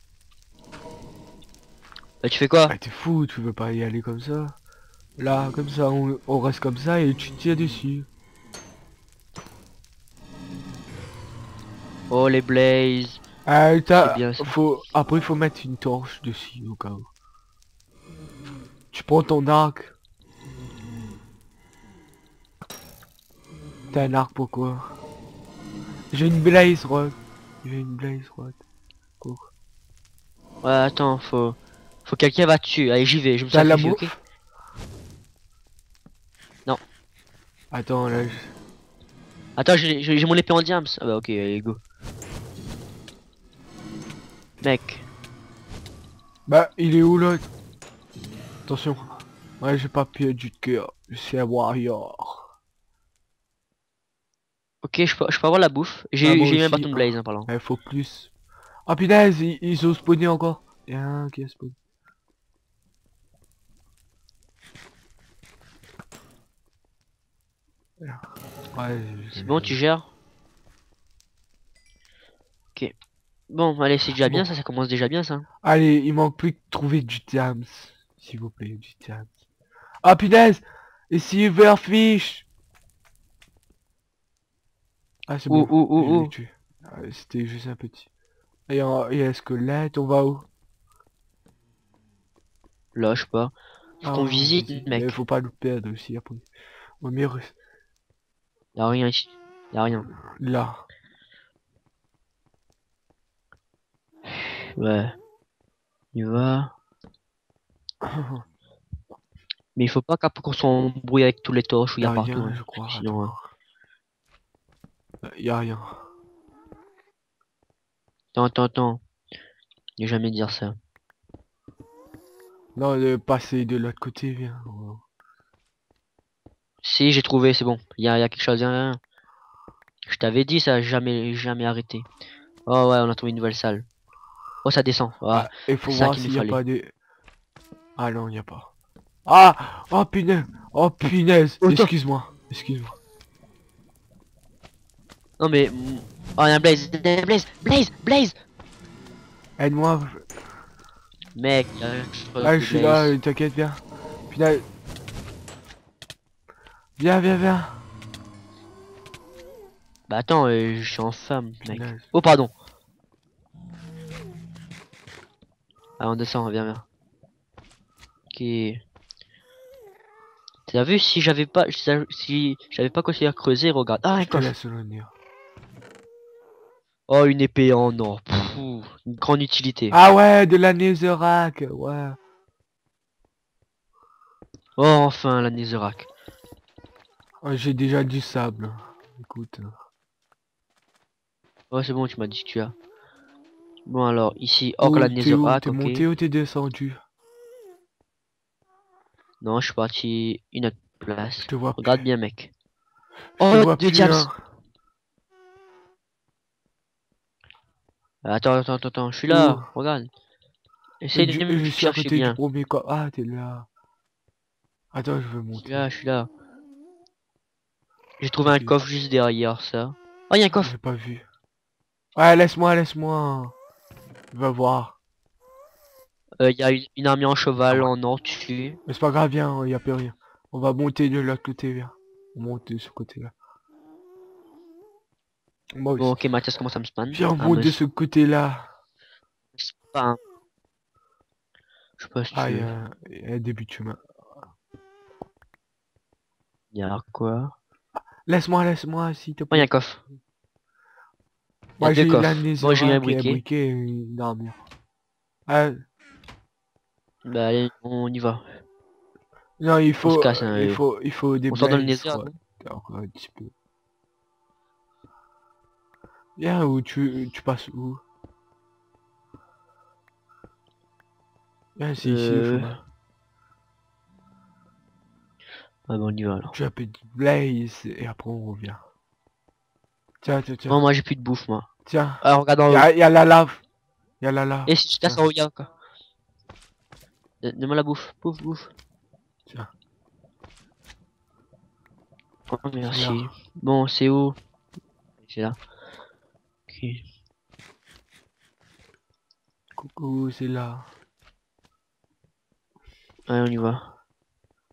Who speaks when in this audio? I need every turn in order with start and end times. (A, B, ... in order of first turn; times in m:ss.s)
0:02.2-0:02.7 A
0:02.7-0:04.6 B
0:05.2-0:08.1 B
0:12.1-0:13.2 A
0:13.4-0:17.1 B
0:14.0-0:14.5 A
0:18.9-0:19.9 B
0:23.9-0:25.0 B
0:26.1-0:28.6 B
0:29.2-0:29.5 B
0:30.6-0:34.1 A
0:33.5-0:34.2 B
0:37.7-0:38.5 B
0:39.6-0:41.8 A
0:44.6-0:45.0 A
0:46.5-0:47.5 B
0:48.6-0:52.5 B
0:54.8-0:57.5 A
0:56.2-0:58.3 B
0:58.9-1:01.8 B
1:08.0-1:09.8 B
1:09.3-1:10.1 A
1:13.5-1:15.4 A
1:14.2-1:14.5 B
1:15.6-1:19.3 B
1:20.0-1:22.4 B
1:25.3-1:28.1 B
1:25.5-1:26.3 A
1:28.7-1:30.5 B
1:32.9-1:35.1 A
1:34.0-1:36.5 B
1:37.0-1:37.5 B
1:38.7-1:40.1 A
1:40.3-1:40.8 B
1:44.4-1:45.1 A
1:46.1-1:46.7 A
1:48.0-1:48.4 B
1:49.7-1:53.3 A
1:52.0-1:53.5 B
1:55.2-1:56.0 B
1:58.3-1:59.0 A
2:00.0-2:00.8 A
2:02.7-2:05.0 B
2:06.8-2:09.0 A
2:10.0-2:12.1 A
2:12.6-2:13.9 A
2:14.6-2:16.6 A
2:15.3-2:16.9 B
2:18.0-2:18.7 B
2:19.2-2:23.0 B
2:21.6-2:21.9 A
2:25.4-2:28.3 A
2:29.6-2:30.2 B
2:31.3-2:33.2 A
2:32.4-2:34.6 B
2:37.0-2:37.8 B
2:40.1-2:42.5 A
2:41.6-2:42.1 B
2:46.0-2:46.8 A
2:48.3-2:48.8 A
2:50.7-2:54.5 A
2:54.2-2:55.1 B
2:57.1-3:00.0 A
2:59.9-3:02.2 B
3:04.8-3:06.1 A
3:07.4-3:09.8 B
3:11.7-3:12.7 A
3:13.8-3:16.0 A
3:14.8-3:17.0 B
3:19.4-3:22.5 A
3:21.5-3:22.0 B
3:23.4-3:24.3 A
3:23.4-3:24.3 B
3:28.2-3:30.1 A
3:29.3-3:29.7 B
3:31.0-3:32.4 A
3:31.1-3:33.7 B
3:34.9-3:35.9 B
3:35.6-3:36.3 A
3:38.2-3:40.7 A
3:38.4-3:38.8 B
3:40.6-3:41.2 B
3:42.1-3:43.5 B
3:44.3-3:45.0 B
3:46.4-3:48.8 A
3:48.9-3:53.3 B
3:55.7-3:56.2 B
3:56.0-3:57.8 A
3:57.1-3:58.7 B
3:59.6-4:00.2 A
4:02.0-4:02.7 A
4:02.3-4:04.0 B
4:06.7-4:07.5 A
4:08.2-4:09.7 B
4:09.5-4:10.0 A
4:11.8-4:14.6 B
4:11.8-4:13.4 A
4:15.5-4:15.8 B
4:17.2-4:18.5 A
4:19.6-4:23.5 B
4:20.0-4:20.8 A
4:21.5-4:22.3 A
4:26.4-4:28.0 B
4:31.8-4:32.8 B
4:32.0-4:32.8 A
4:35.9-4:36.5 A
4:36.5-4:38.8 B
4:40.2-4:40.8 B
4:40.7-4:41.7 A
4:41.8-4:43.6 B
4:42.2-4:42.9 A
4:44.2-4:45.2 B
4:44.7-4:45.7 A
4:47.4-4:48.7 A
4:52.5-4:54.4 A
4:52.9-4:53.3 B
4:55.2-4:55.6 A
4:56.7-4:57.0 A
4:59.8-5:00.9 B
5:03.3-5:03.9 A